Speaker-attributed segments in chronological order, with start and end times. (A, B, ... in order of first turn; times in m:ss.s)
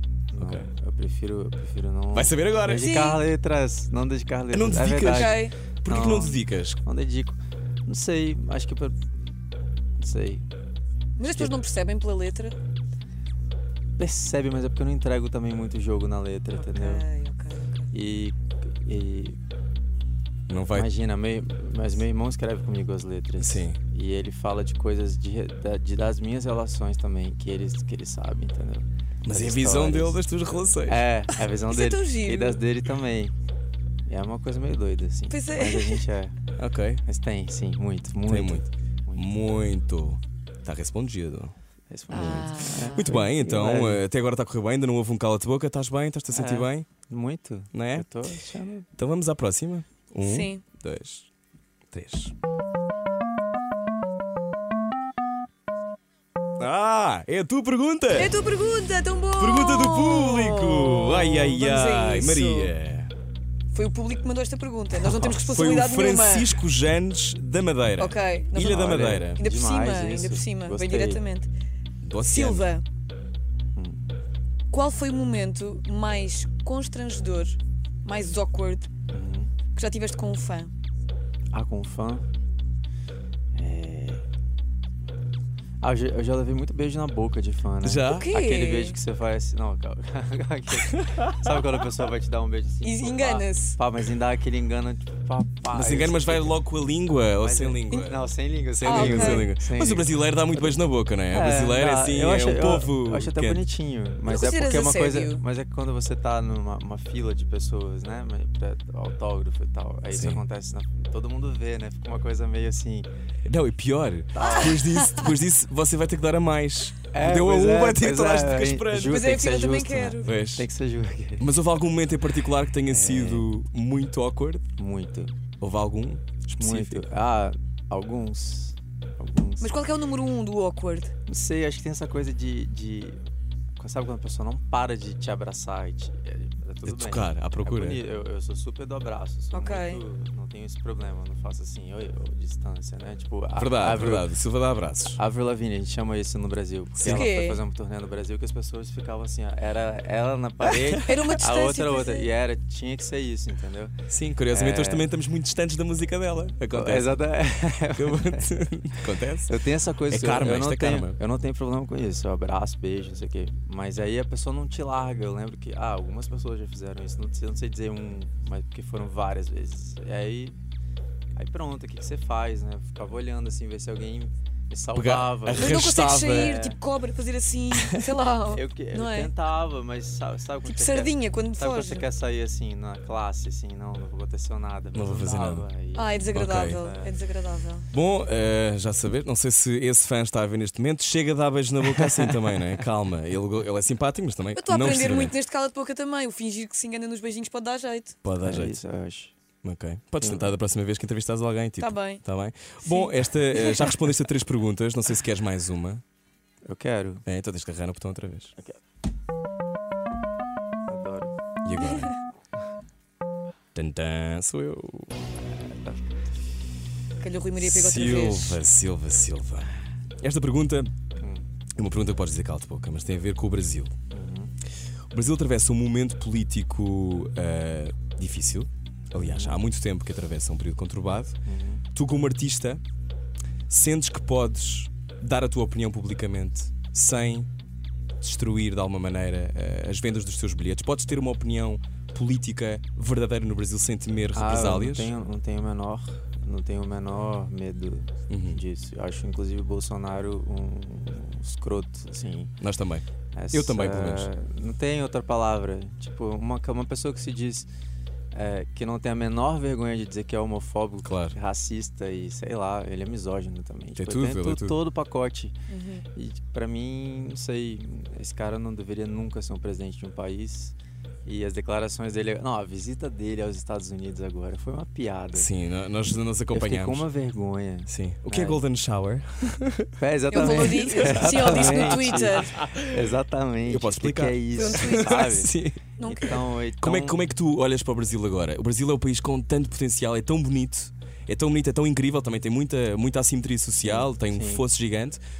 0:00.3-0:09.1 A
0:00.4-0:00.7 B
0:02.1-0:03.0 B
0:02.8-0:03.2 C
0:04.5-0:06.8 B
0:05.1-0:05.5 C
0:10.0-0:10.4 A
0:11.2-0:12.6 C
0:11.2-0:11.6 A
0:14.0-0:17.0 A
0:16.6-0:17.9 C
0:17.9-0:19.4 A
0:20.5-0:20.9 B
0:20.7-0:30.2 A
0:23.4-0:23.8 B
0:29.2-0:31.4 B
0:30.8-0:33.3 A
0:31.7-0:32.6 C
0:34.0-0:36.4 A
0:35.3-0:36.0 C
0:36.6-0:37.0 B
0:37.0-0:39.3 A
0:38.2-0:41.5 B
0:41.9-0:44.0 A
0:42.1-0:46.9 B
0:42.1-0:43.1 C
0:46.3-0:48.9 A
0:47.7-0:48.1 B
0:49.0-0:51.3 B
0:50.2-0:50.6 C
0:51.9-0:52.3 B
0:56.6-0:58.4 B
0:58.1-1:02.7 C
0:59.4-1:03.1 B
1:03.7-1:06.6 C
1:04.9-1:09.4 B
1:08.0-1:11.5 C
1:08.6-1:11.2 A
1:12.0-1:12.7 B
1:12.2-1:12.8 C
1:13.8-1:14.1 A
1:14.7-1:18.9 C
1:19.1-1:19.5 A
1:19.7-1:20.7 C
1:21.5-1:22.3 A
1:23.5-1:24.2 A
1:25.8-1:36.6 A
1:27.8-1:28.3 B
1:28.1-1:29.0 C
1:32.8-1:33.8 C
1:35.7-1:38.2 B
1:37.4-1:40.7 A
1:38.8-1:43.6 B
1:38.8-1:39.5 C
1:41.3-1:53.1 A
1:44.2-1:45.4 C
1:50.1-1:50.4 B
1:53.4-1:59.2 B
1:54.3-1:54.8 A
1:54.4-1:55.3 C
1:57.1-2:01.5 A
1:59.0-2:00.3 C
2:00.2-2:00.7 B
2:01.4-2:04.6 B
2:02.8-2:03.5 A
2:04.8-2:05.4 A
2:05.6-2:07.0 B
2:06.6-2:09.8 A
2:09.6-2:11.1 C
2:11.2-2:13.2 A
2:13.8-2:24.3 A
2:16.8-2:18.0 B
2:19.5-2:20.0 C
2:23.6-2:25.2 B
2:25.2-2:33.9 A
2:27.0-2:27.3 B
2:27.0-2:27.6 C
2:31.0-2:32.3 C
2:34.1-2:37.3 B
2:34.5-2:35.1 A
2:36.7-2:38.6 A
2:37.9-2:39.5 B
2:39.4-2:50.6 A
2:40.1-2:41.2 B
2:51.3-2:56.8 A
2:54.9-2:56.6 B
2:55.5-2:59.3 C
2:57.8-2:58.1 B
2:58.5-3:07.1 A
3:00.6-3:02.0 C
3:04.9-3:05.7 B
3:05.9-3:07.9 C
3:06.3-3:06.8 B
3:07.9-3:15.4 B
3:11.8-3:12.8 A
3:14.5-3:18.2 C
3:18.2-3:18.8 B
3:18.4-3:19.3 A
3:19.6-3:26.0 B
3:20.2-3:20.6 A
3:21.8-3:22.2 C
3:22.8-3:24.0 C
3:26.6-3:27.2 A
3:27.2-3:28.5 B
3:30.9-3:31.3 A
3:31.6-3:32.2 B
3:33.7-3:35.2 B
3:35.4-3:36.1 A
3:37.2-3:38.6 C
3:37.6-3:40.9 B
3:41.2-3:41.5 A
3:41.8-3:43.9 B
3:44.1-3:44.5 A
3:45.1-3:51.4 B
3:49.2-3:49.6 A
3:51.4-3:51.8 A
3:51.9-3:52.8 B
3:53.7-3:57.5 B
3:58.2-4:05.2 B
4:04.3-4:12.5 A
4:08.3-4:08.6 B
4:12.6-4:14.3 B
4:13.3-4:17.7 A
4:18.3-4:25.6 A
4:21.0-4:21.4 B
4:24.0-4:24.8 B
4:25.7-4:26.0 C
4:26.1-4:35.5 A
4:35.3-4:37.0 B
4:36.5-4:38.6 A
4:37.9-4:55.2 B
4:40.0-4:47.2 A
4:40.3-4:42.5 C
4:44.5-4:45.3 C
4:46.0-4:46.3 C
4:53.8-4:54.6 A